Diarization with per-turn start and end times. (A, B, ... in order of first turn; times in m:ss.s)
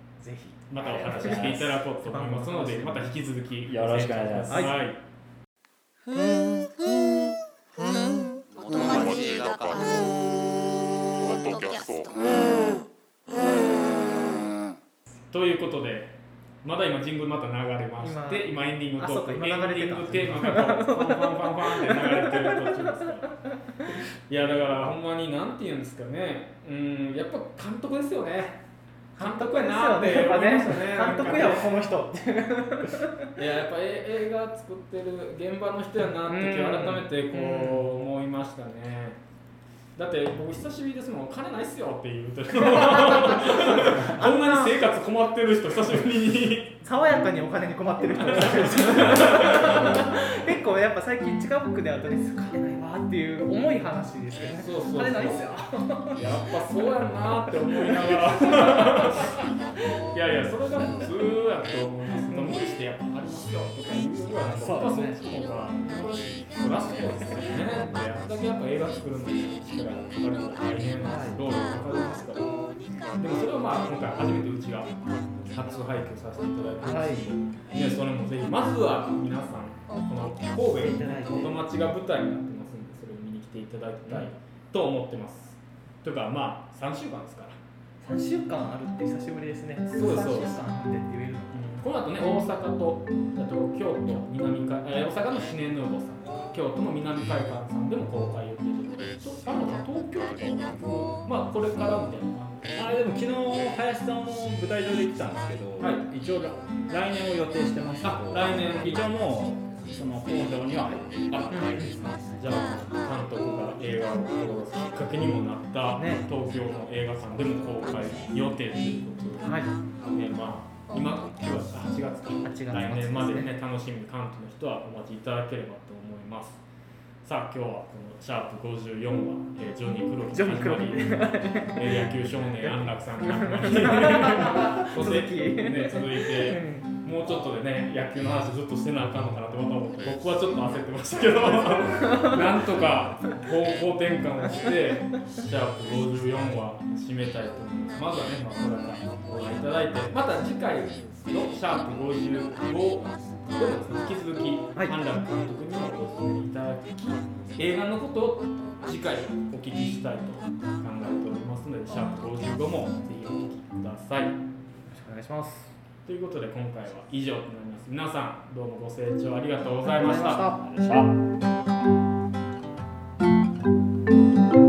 0:00.2-0:03.2 A
0:00.7-0:05.0 B
0:00.8-0:01.7 C
0:03.6-0:04.7 C
0:04.5-0:04.8 A
0:07.8-0:10.2 D
0:11.2-0:12.8 D
0:13.4-0:13.8 D
0:15.3-0:23.3 B
0:18.0-0:23.1 A
0:24.3-0:28.6 B
0:29.2-0:33.3 A
0:29.2-0:31.8 B
0:33.4-0:39.2 B
0:36.2-0:37.9 A
0:40.0-0:46.8 B
0:42.6-0:44.7 A
0:46.8-0:56.2 A
0:48.6-0:50.1 B
0:54.5-0:55.4 B
0:56.1-0:59.4 B
0:57.9-0:59.2 A
1:00.0-1:12.5 B
1:02.3-1:02.6 A
1:04.5-1:05.3 A
1:11.0-1:11.4 A
1:13.1-1:27.6 B
1:16.8-1:17.3 A
1:20.8-1:21.6 A
1:28.0-1:31.8 A
1:29.9-1:30.5 B
1:31.5-1:42.8 B
1:42.7-1:52.2 C
1:48.0-1:49.0 B
1:51.3-1:51.7 B
1:51.5-1:51.9 A
1:52.2-2:06.6 B
1:56.0-1:56.2 A
1:59.4-1:59.7 A
2:02.4-2:03.5 A
2:07.2-2:11.2 B
2:10.3-2:16.9 A
2:11.7-2:44.4 B
2:21.6-2:22.7 A
2:44.9-2:45.7 A
2:46.0-2:50.4 B
2:49.8-2:50.6 A
2:50.0-2:51.2 C